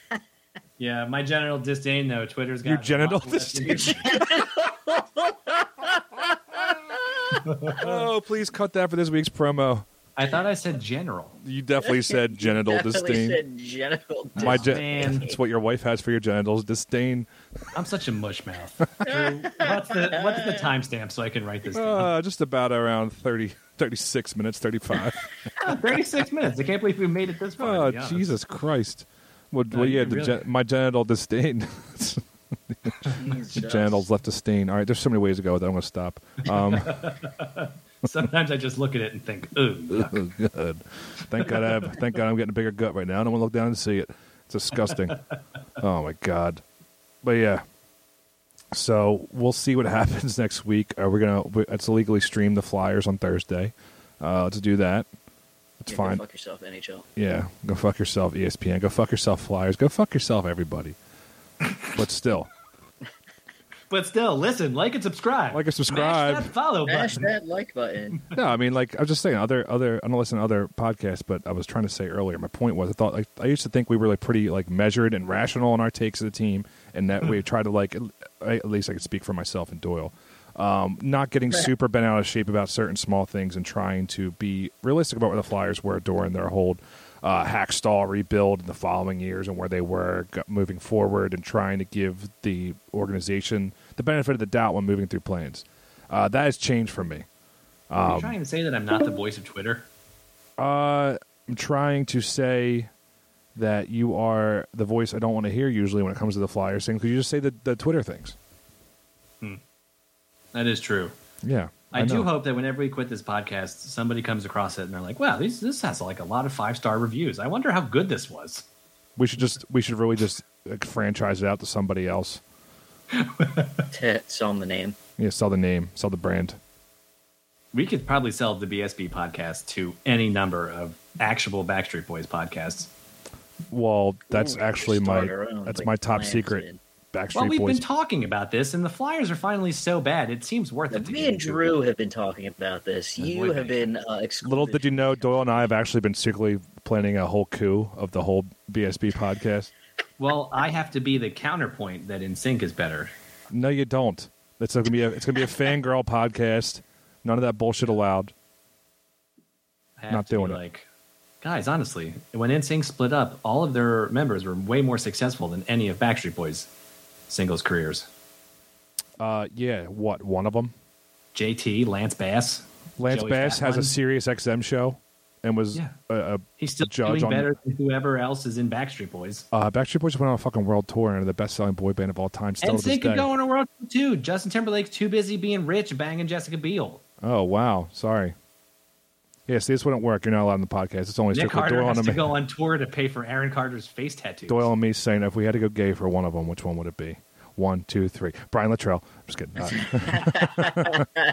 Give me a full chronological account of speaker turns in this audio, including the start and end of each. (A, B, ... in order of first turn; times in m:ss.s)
0:00.8-0:04.1 A
0:02.6-0:04.3 B
0:04.0-0:07.3 C
0:07.3-0:08.0 A
0:07.8-0:09.8 B
0:10.2-0:11.4 A
0:11.4-0:13.4 B
0:11.8-0:15.4 C
0:14.4-0:17.3 B
0:14.4-0:15.3 A
0:17.7-0:22.1 A
0:19.0-0:20.7 C
0:21.7-0:25.2 B
0:25.6-0:28.3 A
0:27.6-0:37.1 B
0:29.7-0:30.4 A
0:33.1-0:34.0 C
0:36.4-0:40.2 A
0:39.9-0:45.2 B
0:41.4-0:41.7 A
0:45.8-0:46.6 B
0:47.2-0:47.6 B
0:48.7-0:55.1 B
0:55.8-0:56.2 B
0:55.9-0:57.0 C
0:57.2-1:01.0 B
1:01.9-1:02.5 B
1:03.9-1:07.3 A
1:05.5-1:06.5 B
1:06.9-1:08.2 C
1:08.3-1:37.2 B
1:37.9-1:38.3 B
1:38.0-1:39.8 A
1:40.6-1:42.9 B
1:43.5-1:48.4 B
1:50.5-1:51.1 A
1:51.4-1:52.3 B
1:51.9-1:58.6 A
1:59.2-2:02.4 B
2:03.1-2:03.9 A
2:03.9-2:05.0 C
2:05.2-2:06.6 B
2:07.7-2:12.9 A
2:13.7-2:17.8 B
2:14.3-2:16.8 C
2:17.3-2:21.7 A
2:20.9-2:25.5 C
2:23.2-2:23.9 A
2:24.4-2:29.7 B
2:30.2-2:33.1 A
2:33.5-2:38.3 B
2:40.0-2:40.8 A
2:40.1-2:40.6 B
2:41.4-2:46.7 A
2:47.3-2:48.1 A
2:49.2-2:50.7 B
2:51.3-2:53.9 A
2:53.0-2:57.5 B
2:56.6-2:59.4 A
2:59.5-3:03.3 B
3:02.6-3:07.0 A
3:07.2-3:08.3 B
3:09.5-3:12.3 B
3:11.3-3:14.7 A
3:14.5-3:21.0 B